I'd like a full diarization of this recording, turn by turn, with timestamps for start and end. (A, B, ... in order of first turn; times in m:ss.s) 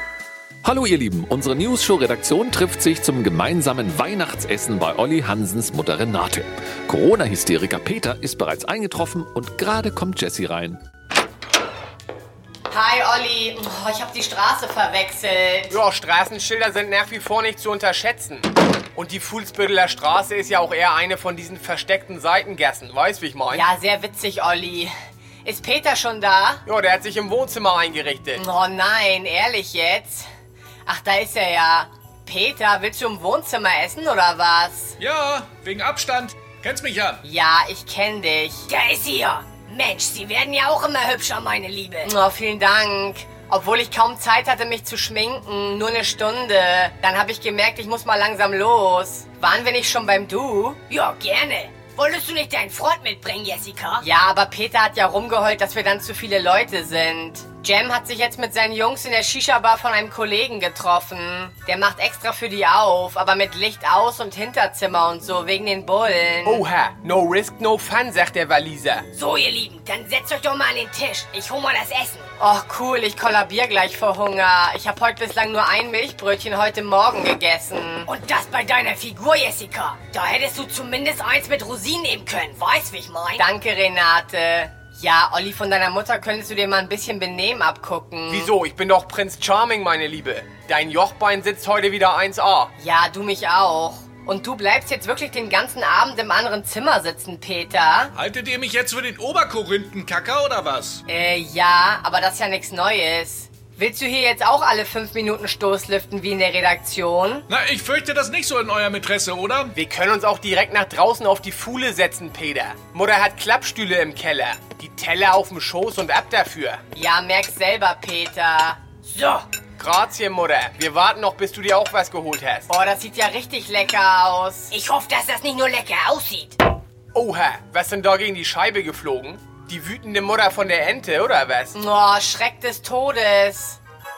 0:00.6-0:10.8 A
0:12.7-0:15.8 B
0:15.7-0:23.7 C
0:23.5-0:24.9 B
0:25.4-0:26.6 B
0:26.6-0:28.4 C
0:28.4-0:30.3 B
0:30.9-0:35.0 B
0:35.0-0:37.2 D
0:37.2-0:38.7 B
0:38.7-0:42.1 E
0:42.0-0:50.8 B
0:50.9-0:54.0 E
0:54.0-1:06.6 B
1:06.4-1:09.0 C
1:09.1-1:12.3 E
1:12.4-1:18.1 B
1:18.1-1:23.5 E
1:23.4-1:28.5 B
1:28.3-1:32.7 C
1:32.8-1:38.1 B
1:38.2-1:41.0 D
1:41.1-1:47.5 B
1:47.5-1:49.7 D
1:49.8-1:56.8 C
1:57.0-1:58.8 B
1:59.1-1:59.5 E
1:59.8-2:02.7 C
2:02.7-2:04.8 B
2:04.7-2:06.6 E
2:07.1-2:11.8 C
2:11.8-2:13.8 B